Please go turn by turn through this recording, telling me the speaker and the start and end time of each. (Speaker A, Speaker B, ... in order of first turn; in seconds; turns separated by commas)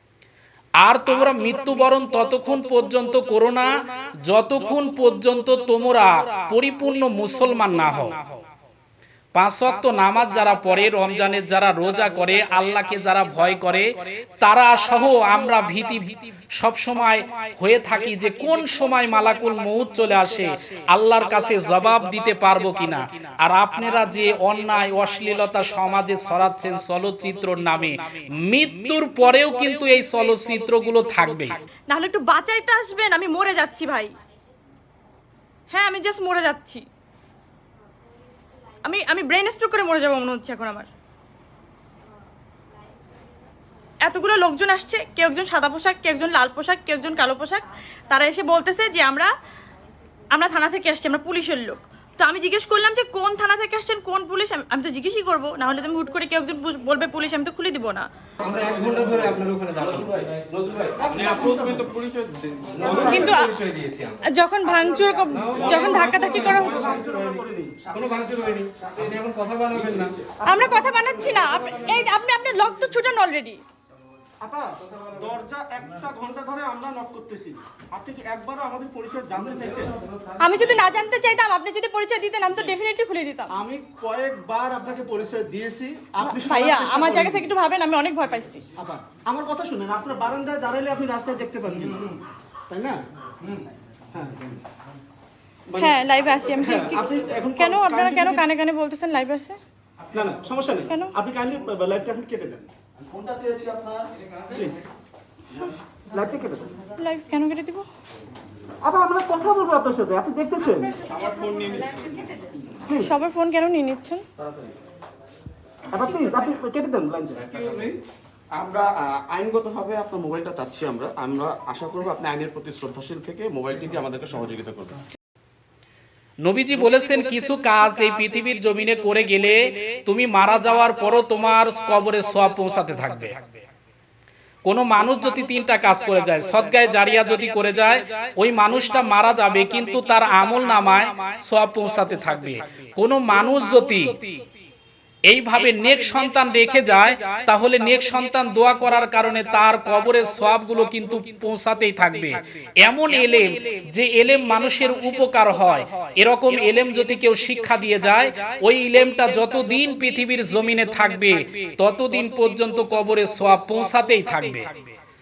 Speaker A: 0.8-3.7, Speaker A: 4.2-8.2, Speaker A: 9.3-31.6, Speaker B: 31.9-34.1, Speaker B: 35.7-36.8, Speaker B: 38.8-40.9, Speaker B: 44.0-49.3, Speaker B: 50.3-58.1, Speaker C: 58.4-60.5, Speaker D: 58.6-61.5, Speaker E: 61.0-62.0, Speaker C: 61.0-64.2, Speaker D: 62.7-63.0, Speaker E: 62.8-63.4, Speaker B: 63.1-63.6, Speaker B: 64.3-66.9, Speaker C: 65.3-67.3, Speaker E: 66.1-68.1, Speaker C: 67.9-70.2, Speaker D: 69.7-70.1, Speaker B: 70.5-73.6, Speaker E: 70.5-71.2, Speaker E: 74.4-80.0, Speaker B: 80.4-83.5, Speaker E: 83.5-87.5, Speaker B: 86.2-88.7, Speaker E: 88.8-92.2, Speaker E: 92.7-93.0, Speaker E: 94.1-94.6, Speaker E: 95.7-96.0, Speaker B: 95.8-99.6, Speaker E: 96.5-98.4, Speaker E: 100.1-102.7, Speaker B: 100.9-101.1, Speaker D: 103.2-104.1, Speaker E: 104.5-104.8, Speaker E: 106.1-106.7, Speaker B: 107.0-107.8, Speaker E: 108.8-111.0, Speaker B: 111.1-114.2, Speaker D: 111.1-112.0, Speaker E: 112.9-113.1, Speaker E: 115.9-117.6, Speaker D: 117.4-118.0, Speaker C: 117.5-117.9, Speaker D: 118.5-125.0, Speaker A: 126.4-133.4, Speaker A: 134.7-144.2, Speaker A: 145.3-164.8